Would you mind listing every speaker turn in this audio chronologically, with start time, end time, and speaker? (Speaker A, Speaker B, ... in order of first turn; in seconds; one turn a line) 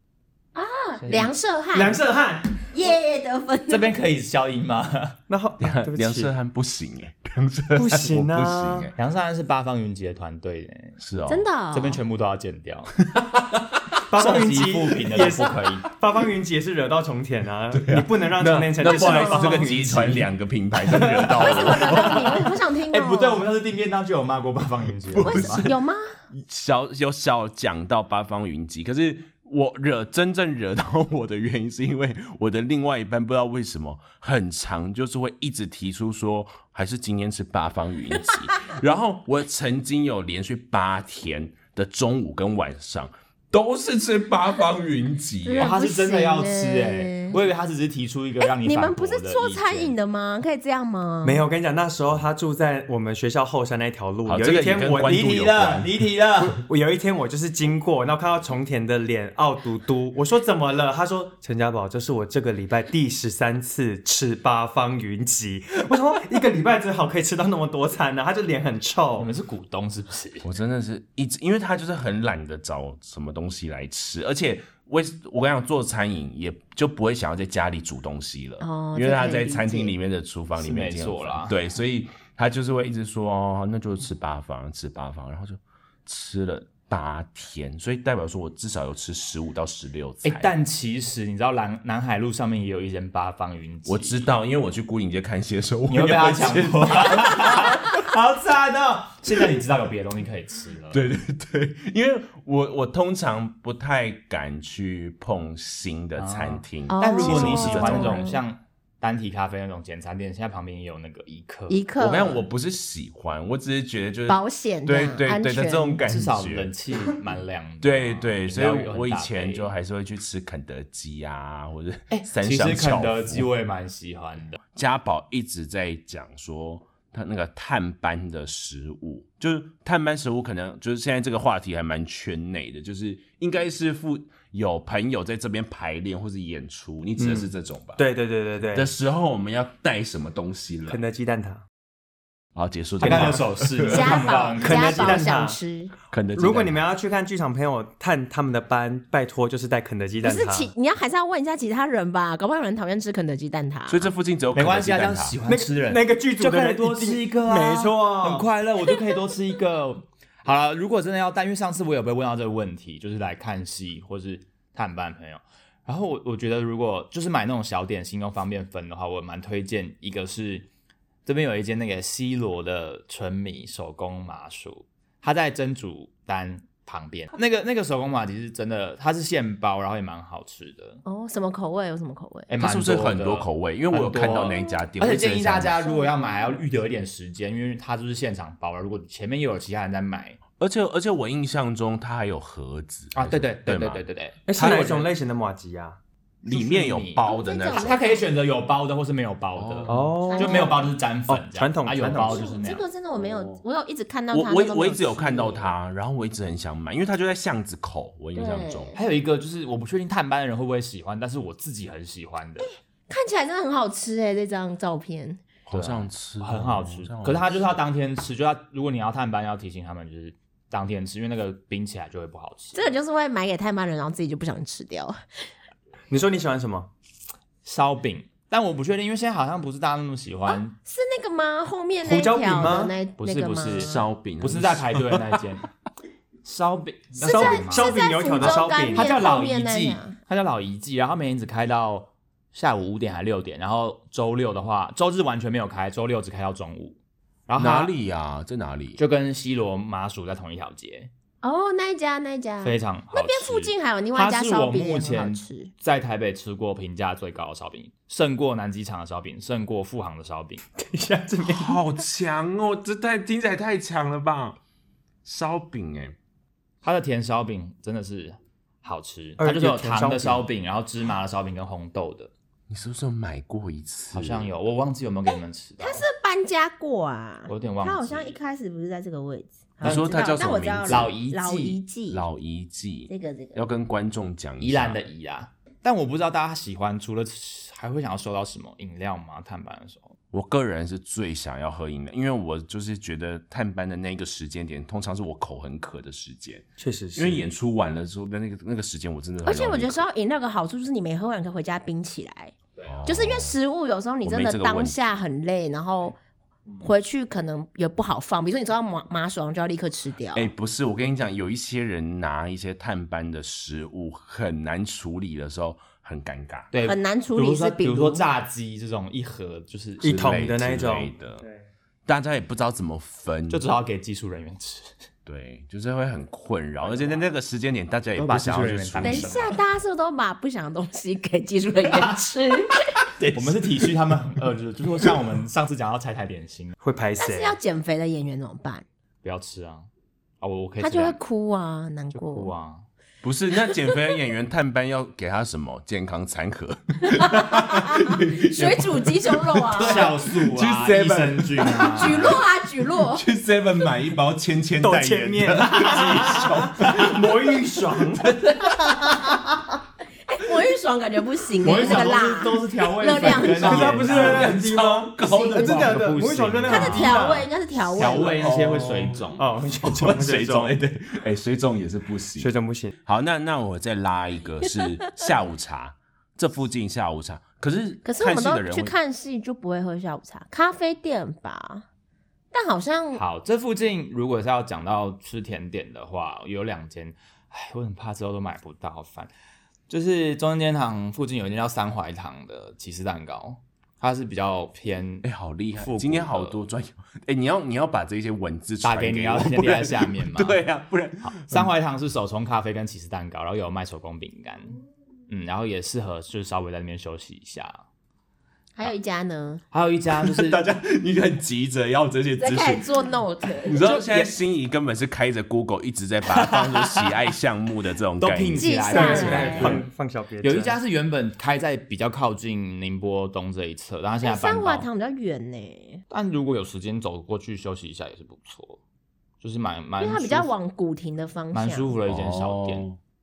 Speaker A: 0.6-2.0
Speaker B: 1.0-1.3
Speaker C: 1.7-2.6
Speaker A: 2.7-3.9
Speaker B: 3.7-5.2
Speaker C: 5.3-6.3
Speaker D: 5.6-8.9
Speaker C: 7.8-8.9
Speaker B: 9.0-11.0
Speaker D: 11.0-11.5
Speaker A: 11.3-12.0
Speaker B: 11.7-12.9
Speaker D: 13.1-13.8
Speaker C: 14.1-20.2
Speaker B: 14.1-15.9
Speaker D: 17.7-22.5
Speaker A: 18.8-19.5
Speaker B: 19.4-20.2
Speaker C: 20.9-21.5
Speaker A: 21.4-23.5
Speaker B: 21.5-22.4
Speaker B: 22.9-25.7
Speaker D: 25.1-25.8
Speaker A: 25.2-26.1
Speaker D: 26.3-45.8
Speaker A: 45.5-47.4
Speaker B: 45.6-50.0
Speaker A: 48.4-51.4
Speaker C: 51.2-55.3
Speaker D: 54.2-55.9
Speaker B: 54.8-56.6
Speaker C: 56.5-69.3
Speaker B: 69.2-70.5
Speaker D: 70.4-90.5
Speaker A: 78.6-79.9
Speaker B: 80.6-81.6
Speaker B: 90.2-94.3
Speaker D: 93.9-97.9
Speaker B: 95.9-101.0
Speaker D: 100.9-108.3
Speaker B: 106.2-111.9
Speaker A: 106.9-108.4
Speaker A: 111.7-112.4
Speaker D: 112.0-116.7
Speaker A: 114.3-116.0
Speaker B: 116.0-119.7
Speaker D: 117.8-123.5
Speaker B: 122.1-124.6
Speaker D: 124.7-138.0
Speaker C: 137.2-138.9
Speaker D: 138.7-141.0
Speaker C: 140.9-141.6
Speaker D: 142.6-144.2
Speaker B: 143.0-145.3
Speaker C: 143.0-143.4
Speaker A: 143.9-145.9
Speaker C: 144.6-145.6
Speaker D: 146.1-146.9
Speaker C: 146.3-150.7
Speaker A: 150.2-154.1
Speaker D: 153.9-155.4
Speaker B: 154.5-170.7
Speaker C: 155.5-158.5
Speaker B: 171.3-181.0
Speaker A: 181.1-182.5
Speaker B: 182.5-190.4
Speaker D: 182.6-185.8
Speaker A: 185.8-186.6
Speaker D: 190.6-194.0
Speaker B: 193.1-195.1
Speaker C: 194.5-196.0
Speaker D: 196.4-198.0
Speaker B: 196.5-202.9
Speaker A: 197.2-198.3
Speaker D: 199.6-200.1
Speaker C: 199.9-202.5
Speaker A: 200.2-201.0
Speaker A: 202.2-205.7
Speaker D: 203.2-203.6
Speaker D: 204.3-208.9
Speaker A: 208.3-209.0
Speaker B: 209.0-212.7
Speaker A: 213.1-215.4
Speaker D: 215.7-217.7
Speaker B: 215.7-222.9
Speaker A: 222.7-225.5
Speaker C: 226.1-226.9
Speaker B: 227.6-230.8
Speaker A: 230.5-234.0
Speaker C: 232.0-232.9
Speaker B: 233.2-235.7
Speaker D: 233.7-235.4
Speaker B: 236.4-247.0
Speaker A: 237.2-240.2
Speaker C: 237.2-239.2
Speaker B: 247.5-247.9
Speaker D: 247.6-249.0
Speaker B: 249.0-251.1
Speaker A: 251.4-255.7
Speaker B: 252.6-260.6
Speaker C: 260.8-261.8
Speaker D: 261.4-264.6
Speaker D: 265.2-266.2
Speaker B: 266.8-272.3
Speaker C: 269.4-270.5
Speaker D: 272.7-274.5
Speaker B: 274.1-276.1
Speaker A: 275.3-282.2
Speaker B: 277.5-278.4
Speaker D: 279.8-281.1
Speaker B: 279.8-281.8
Speaker D: 282.1-285.0
Speaker A: 283.1-283.6
Speaker B: 284.6-290.1
Speaker D: 290.3-300.1
Speaker C: 296.8-297.5
Speaker A: 299.4-302.5
Speaker D: 302.9-303.6
Speaker A: 303.1-306.2
Speaker D: 304.2-305.0
Speaker A: 306.8-310.5
Speaker D: 310.3-316.7
Speaker B: 316.7-320.6
Speaker A: 316.8-318.3
Speaker C: 320.0-321.1
Speaker D: 320.0-321.4
Speaker D: 322.1-323.6
Speaker B: 323.5-325.0
Speaker D: 325.3-329.6
Speaker B: 326.8-327.2
Speaker B: 328.2-329.6
Speaker A: 329.0-332.9
Speaker B: 331.9-332.1
Speaker B: 333.2-336.8
Speaker C: 336.8-337.6
Speaker A: 337.2-338.9
Speaker B: 339.2-339.9
Speaker B: 340.4-341.2
Speaker A: 340.8-342.5
Speaker B: 342.1-342.9
Speaker D: 343.2-352.4
Speaker A: 343.7-344.0
Speaker A: 347.2-350.2
Speaker B: 349.7-352.4
Speaker A: 351.6-353.2
Speaker D: 353.0-357.3
Speaker C: 354.8-358.3
Speaker D: 358.2-359.1
Speaker A: 360.3-364.1
Speaker B: 361.6-369.4
Speaker C: 363.2-367.5
Speaker D: 364.1-366.1
Speaker A: 366.7-368.4
Speaker D: 368.0-372.5
Speaker C: 369.4-370.7
Speaker C: 372.4-372.9
Speaker D: 373.1-379.0
Speaker A: 378.1-381.9
Speaker A: 382.5-383.2
Speaker B: 383.1-389.3
Speaker B: 389.9-396.6
Speaker D: 395.2-401.7
Speaker B: 398.8-400.6
Speaker B: 401.2-404.7
Speaker B: 405.3-407.8
Speaker A: 408.8-409.6
Speaker B: 409.7-410.7
Speaker D: 410.1-412.8
Speaker A: 412.4-413.9
Speaker D: 413.7-419.9
Speaker B: 413.8-414.3
Speaker B: 416.3-417.2
Speaker B: 418.2-419.8
Speaker A: 418.6-419.8
Speaker C: 418.9-420.8
Speaker B: 420.4-424.9
Speaker A: 424.2-426.0
Speaker B: 426.1-428.8
Speaker B: 429.4-430.5
Speaker A: 430.0-431.9
Speaker B: 431.5-432.9
Speaker D: 432.1-433.0